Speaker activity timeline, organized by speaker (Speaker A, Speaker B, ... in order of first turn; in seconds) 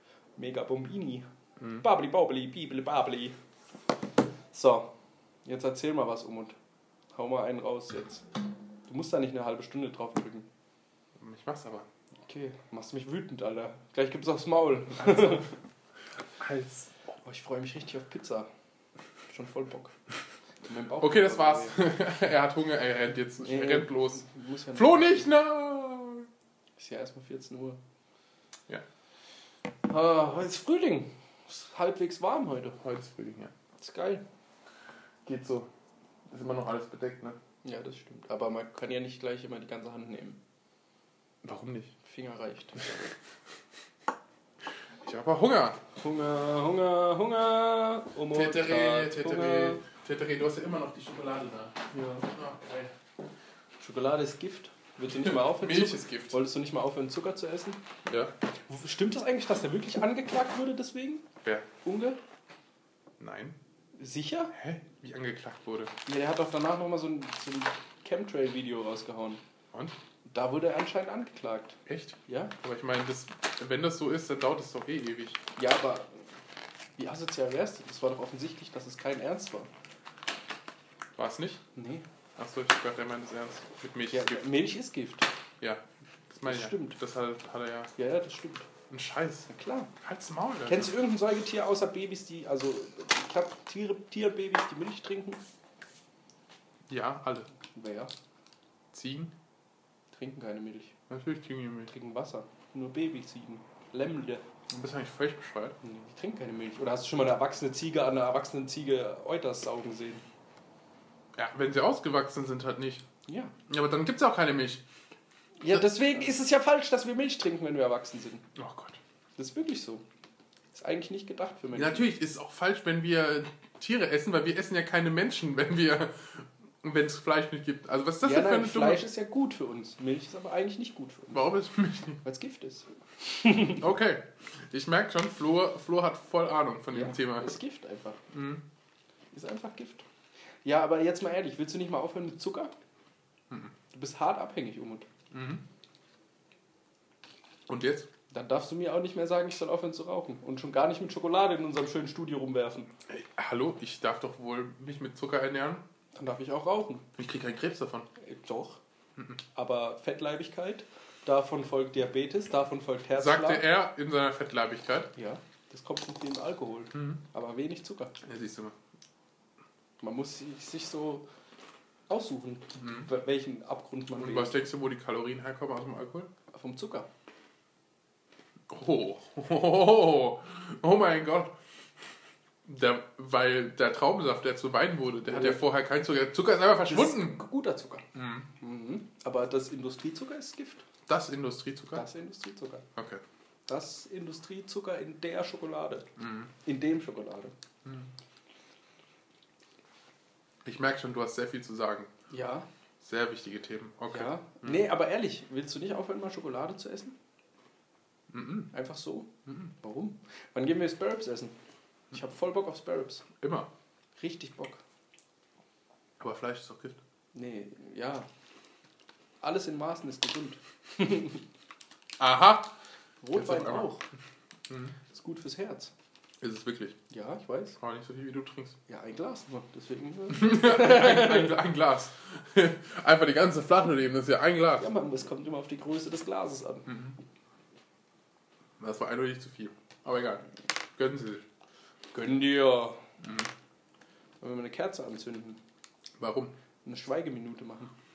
Speaker A: 0.4-1.2, 1.8-3.4, 4.5-4.9, 5.4-6.5, 7.1-8.2, 8.8-10.5, 12.2-15.5, 17.2-18.5, 19.3-19.9, 20.6-21.8, 23.4-25.3, 26.8-27.8, 29.8-32.8, 33.8-34.2, 37.6-40.4, 42.0-43.1, 46.0-49.8, 51.9-52.9, 53.8-57.9, 58.7-61.3, 61.8-62.2, 64.0-64.5, 66.0-69.4, 70.2-72.5, 75.6-76.2, 77.0-79.7, 81.7-82.0, 84.1-85.3, 86.4-87.0, 88.0-88.7, 89.5-89.9, 90.7-95.4, 97.7-98.1, 100.1-100.9, 101.9-104.4, 105.8-110.2, 113.3-113.5, 115.6-118.5, 119.4-120.0, 120.7-122.1, 128.2-131.5, 132.2-133.8, 136.9-138.2, 139.3-140.0, 140.6-142.7, 143.9-145.1, 148.3-152.9, 156.1-157.1, 158.2-158.8, 159.5-163.7, 165.1-168.2, 170.0-171.2, 172.1-174.6, 176.5-177.1, 185.3-185.6, 186.9-190.8, 191.9-192.9, 193.7-196.1, 196.6-197.5, 202.3-202.7, 204.1-207.2, 208.7-211.6, 212.1-213.3, 214.2-214.8, 217.3-218.3, 219.4-221.4, 223.2-224.0, 225.1-225.9, 227.1-227.8, 228.9-231.6, 234.8-237.1, 242.1-243.1, 244.4-245.6, 246.8-247.9
Speaker B: 11.2-11.9, 15.1-15.4, 16.4-16.9, 21.0-26.3, 32.8-33.5, 35.2-35.7, 36.3-37.4, 41.4-41.9, 45.0-45.8, 48.3-51.8, 52.3-52.6, 55.1-56.4, 58.0-58.3, 63.2-63.5, 64.5-65.9, 71.8-75.4, 81.2-81.6, 82.4-84.4, 85.6-87.9, 88.9-89.5, 90.0-90.9, 96.9-97.5, 98.9-99.3, 101.1-101.9, 104.7-105.8, 111.3-113.0, 113.7-114.8, 118.5-119.0, 121.7-129.1, 131.3-132.2, 133.7-137.6, 138.3-138.6, 145.3-145.6, 147.7-148.1, 153.1-155.8, 157.2-158.1, 163.1-165.1, 166.9-167.2, 168.2-168.8, 172.8-173.1, 174.2-176.3, 178.7-181.5, 182.6-187.4, 188.1-188.5, 191.1-192.1, 192.9-193.2, 196.2-196.5, 197.8-198.1, 200.6-202.1, 203.0-204.8, 208.3-208.7, 213.4-213.7, 216.2-217.0, 222.2-222.7, 223.3-223.9, 224.7-224.9, 226.4-227.0, 227.8-228.8, 230.3-234.9, 236.9-237.1, 238.8-241.4, 243.2-243.5, 246.2-246.5